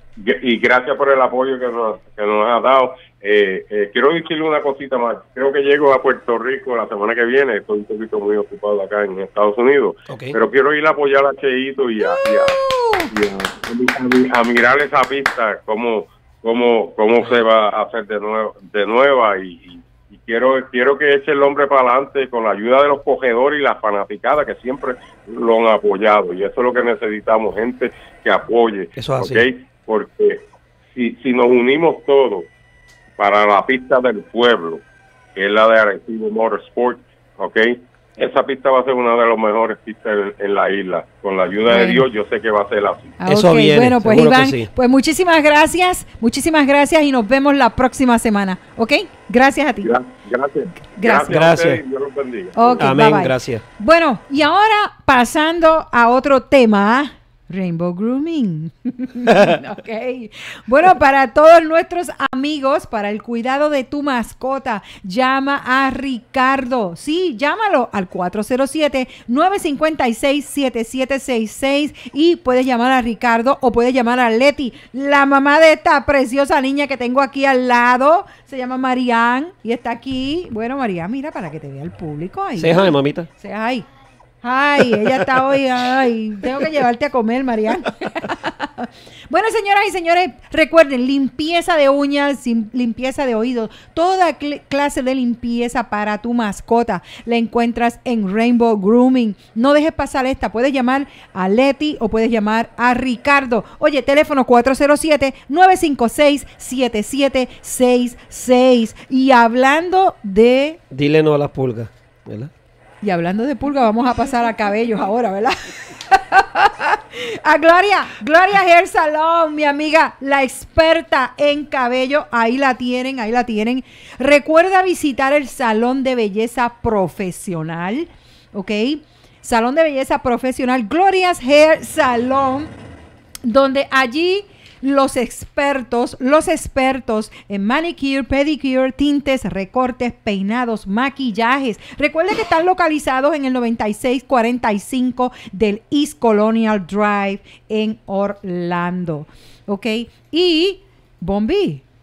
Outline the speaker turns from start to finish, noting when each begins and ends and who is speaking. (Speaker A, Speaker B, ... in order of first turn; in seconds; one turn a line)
Speaker A: 0.2-32.5
Speaker B: 10.1-10.4
Speaker C: 12.0-13.1
Speaker B: 29.0-29.4
Speaker A: 33.2-34.8
Speaker A: 35.4-43.2
Speaker C: 41.7-42.0
Speaker C: 43.2-49.9
Speaker B: 43.2-44.7
Speaker A: 49.8-52.8
Speaker C: 51.0-51.3
Speaker B: 51.3-51.8
Speaker C: 52.5-83.9
Speaker B: 52.8-53.6
Speaker B: 59.3-59.6
Speaker B: 82.6-83.3
Speaker C: 84.4-110.8
Speaker B: 110.9-112.5
Speaker C: 113.0-132.7
Speaker C: 133.4-151.8